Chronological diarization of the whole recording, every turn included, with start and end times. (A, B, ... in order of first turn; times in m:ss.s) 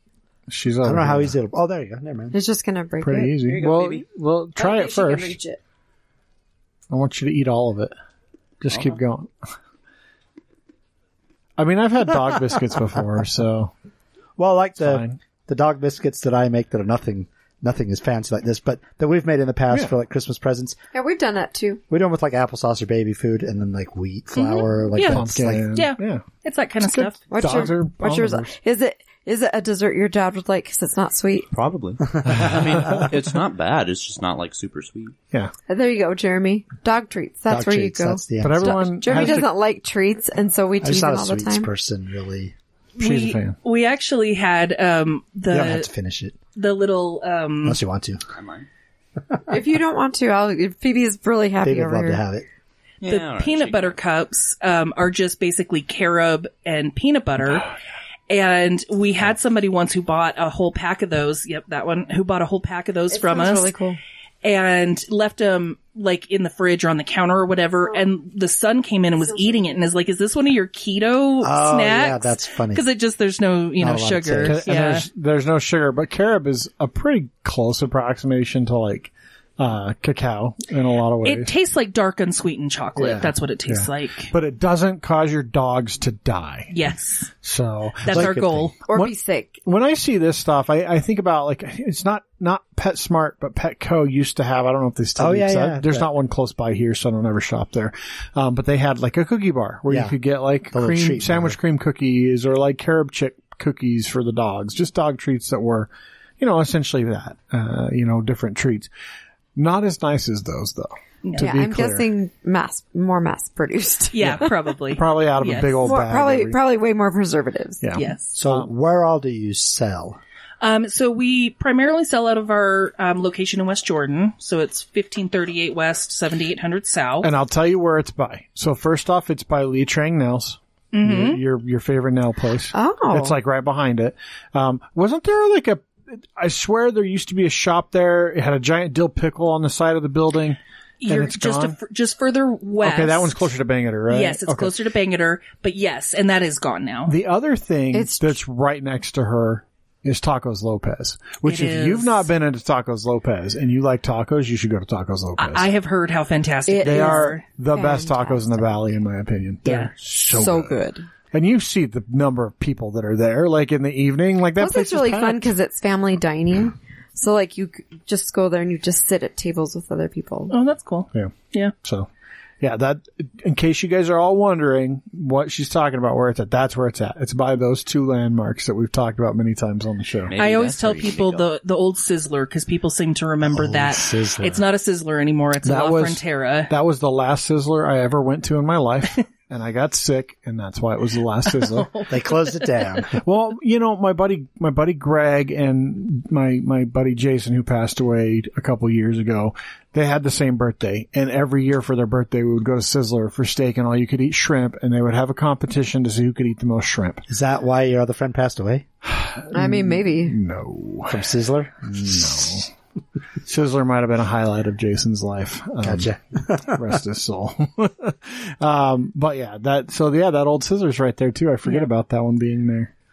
0:00.5-0:01.4 A
0:00.8-0:02.4 B
0:02.3-0:03.6 C
0:03.0-0:05.4 A
0:03.5-0:04.0 D
0:04.6-0:05.6 C
0:06.9-0:07.9 A
0:08.6-0:09.4 A
0:08.7-0:09.0 D
0:11.6-0:13.7 A
0:14.4-0:20.8 B
0:14.8-0:15.2 A
0:20.9-0:21.8 C
0:21.9-0:25.7 B
0:24.3-0:27.6 E
0:25.0-0:26.3 A
0:26.8-0:28.5 A
0:27.3-0:31.5 C
0:31.5-0:35.1 D
0:32.2-0:32.5 B
0:35.7-0:41.7 C
0:37.5-0:39.0 B
0:38.4-0:39.5 A
0:40.8-0:42.5 B
0:43.0-0:45.9 E
0:43.0-0:43.6 A
0:45.5-0:46.4 B
0:46.5-0:47.8 E
0:47.6-0:48.2 B
0:48.3-0:48.7 D
0:49.5-0:52.2 C
0:51.6-0:52.5 B
0:53.0-0:54.0 D
0:53.0-0:57.7 E
0:58.3-1:03.7 E
1:03.1-1:04.0 C
1:04.4-1:15.1 E
1:09.3-1:09.7 C
1:11.4-1:12.8 B
1:13.8-1:14.6 B
1:14.4-1:21.5 A
1:21.2-1:24.3 E
1:23.0-1:26.8 A
1:26.7-1:27.3 E
1:27.4-1:28.4 A
1:28.0-1:28.8 E
1:28.1-1:28.7 B
1:28.8-1:29.6 C
1:28.9-1:48.9 A
1:35.2-1:36.1 B
1:39.9-1:40.2 B
1:40.7-1:41.6 B
1:49.6-1:52.0 A
1:51.2-1:51.5 E
1:51.4-1:54.4 C
1:54.1-1:55.9 E
1:54.2-1:56.6 A
1:55.8-1:57.9 C
1:57.8-1:58.7 A
1:57.9-1:58.4 E
1:58.3-2:00.2 B
2:00.6-2:07.3 E
2:07.2-2:21.8 A
2:10.9-2:11.4 E
2:12.7-2:13.4 C
2:21.0-2:23.5 E
2:22.8-2:24.7 A
2:24.1-2:27.1 E
2:27.1-2:35.7 A
2:27.9-2:28.4 C
2:31.4-2:32.2 E
2:35.4-2:37.4 E
2:36.6-2:38.6 C
2:36.8-2:40.8 A
2:39.6-2:39.9 E
2:40.2-2:41.1 C
2:41.3-2:45.5 A
2:44.6-2:50.5 C
2:50.5-2:51.7 E
2:51.1-2:52.1 A
2:52.6-3:00.3 A
3:00.3-3:01.5 D
3:00.4-3:06.7 E
3:03.4-3:04.6 B
3:05.6-3:11.9 A
3:11.5-3:13.0 E
3:12.1-3:13.1 B
3:13.1-3:27.2 A
3:27.3-3:28.8 B
3:29.0-3:31.3 A
3:29.5-3:30.4 C
3:31.1-3:32.5 B
3:31.8-3:32.7 A
3:33.4-3:42.9 A
3:35.8-3:36.8 B